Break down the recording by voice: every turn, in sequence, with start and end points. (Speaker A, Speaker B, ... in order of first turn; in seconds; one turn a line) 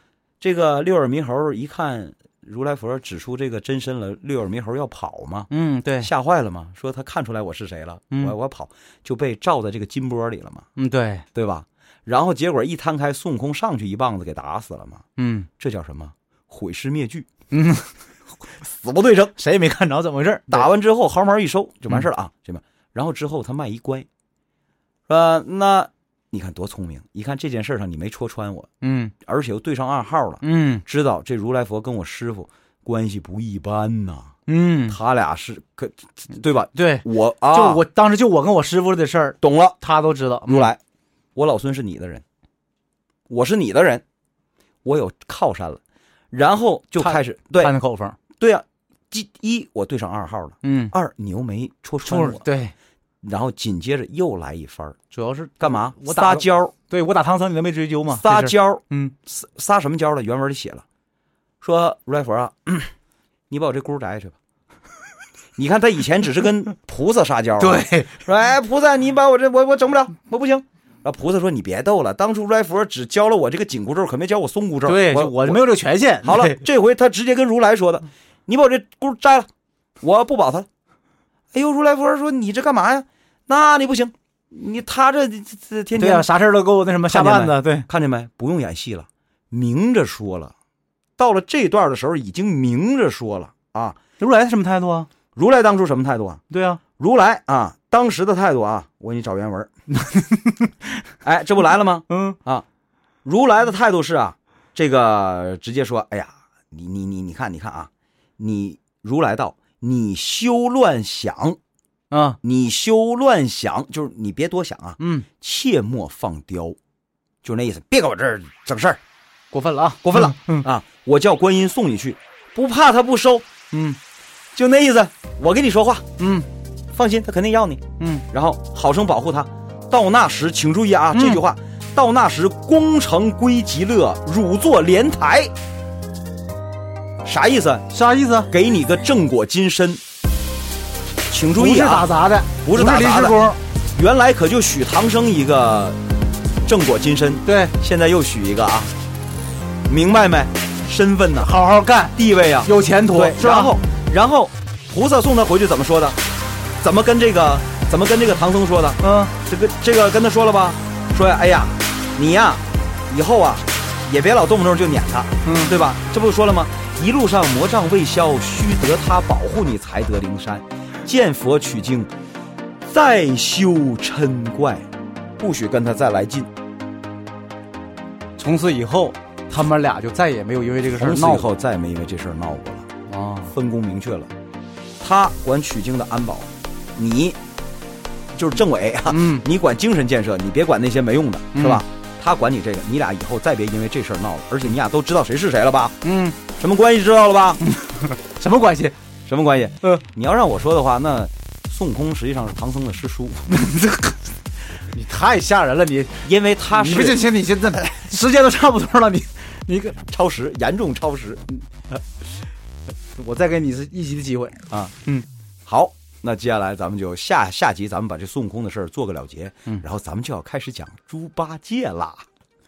Speaker A: 0.4-10.7
Speaker B: 5.5-6.1
Speaker B: 10.8-11.3
Speaker A: 11.3-15.0
Speaker B: 15.2-15.5
Speaker A: 15.6-17.3
Speaker B: 17.5-17.9
Speaker A: 18.6-19.4
Speaker B: 19.4-20.7
Speaker A: 20.5-24.1
Speaker A: 25.1-34.4
Speaker B: 28.8-29.1
Speaker B: 30.4-30.8
Speaker B: 34.5-35.0
Speaker A: 34.9-37.8
Speaker B: 36.8-40.7
Speaker A: 39.4-39.8
Speaker A: 40.5-40.8
Speaker A: 41.4-42.2
Speaker A: 43.3-44.0
Speaker A: 44.9-45.8
Speaker A: 46.3-47.8
Speaker B: 47.0-48.2
Speaker A: 48.4-52.4
Speaker B: 50.6-50.9
Speaker B: 52.1-52.7
Speaker A: 53.2-55.0
Speaker B: 55.1-59.1
Speaker A: 55.6-56.7
Speaker A: 58.1-60.9
Speaker A: 61.6-62.9
Speaker A: 63.5-64.4
Speaker A: 65.6-75.6
Speaker B: 67.6-68.2
Speaker B: 74.9-76.6
Speaker A: 76.2-79.5
Speaker A: 80.0-80.7
Speaker A: 81.5-86.3
Speaker B: 86.0-87.9
Speaker A: 87.1-90.5
Speaker A: 91.2-94.0
Speaker B: 94.2-95.1
Speaker A: 95.3-96.4
Speaker B: 96.5-96.8
Speaker A: 97.0-99.7
Speaker B: 100.0-100.7
Speaker A: 101.2-102.7
Speaker B: 102.1-102.4
Speaker A: 103.2-111.6
Speaker B: 112.1-112.4
Speaker A: 112.4-116.8
Speaker B: 115.0-115.3
Speaker A: 117.4-119.0
Speaker B: 119.5-120.7
Speaker A: 120.0-123.5
Speaker B: 123.7-124.0
Speaker A: 124.5-126.1
Speaker B: 126.2-126.5
Speaker A: 126.9-135.5
Speaker B: 128.0-128.2
Speaker B: 131.1-131.4
Speaker A: 137.2-137.9
Speaker B: 137.9-138.5
Speaker A: 138.5-140.0
Speaker A: 141.3-142.1
Speaker B: 141.6-143.6
Speaker A: 142.6-143.4
Speaker A: 143.9-146.0
Speaker A: 146.7-148.9
Speaker B: 147.5-147.7
Speaker A: 149.9-151.6
Speaker B: 151.4-153.7
Speaker A: 152.1-156.2
Speaker A: 156.8-172.1
Speaker B: 159.0-159.3
Speaker B: 165.4-165.7
Speaker A: 172.9-174.9
Speaker A: 175.4-176.5
Speaker B: 178.4-181.5
Speaker A: 180.9-182.9
Speaker B: 183.1-183.5
Speaker A: 183.5-184.3
Speaker A: 185.0-187.4
Speaker A: 188.3-197.7
Speaker B: 189.1-189.4
Speaker B: 191.6-191.8
Speaker B: 196.0-196.4
Speaker B: 197.7-198.9
Speaker A: 199.2-203.5
Speaker B: 203.5-210.0
Speaker A: 206.2-207.2
Speaker A: 210.0-211.4
Speaker B: 213.2-215.3
Speaker A: 215.7-222.3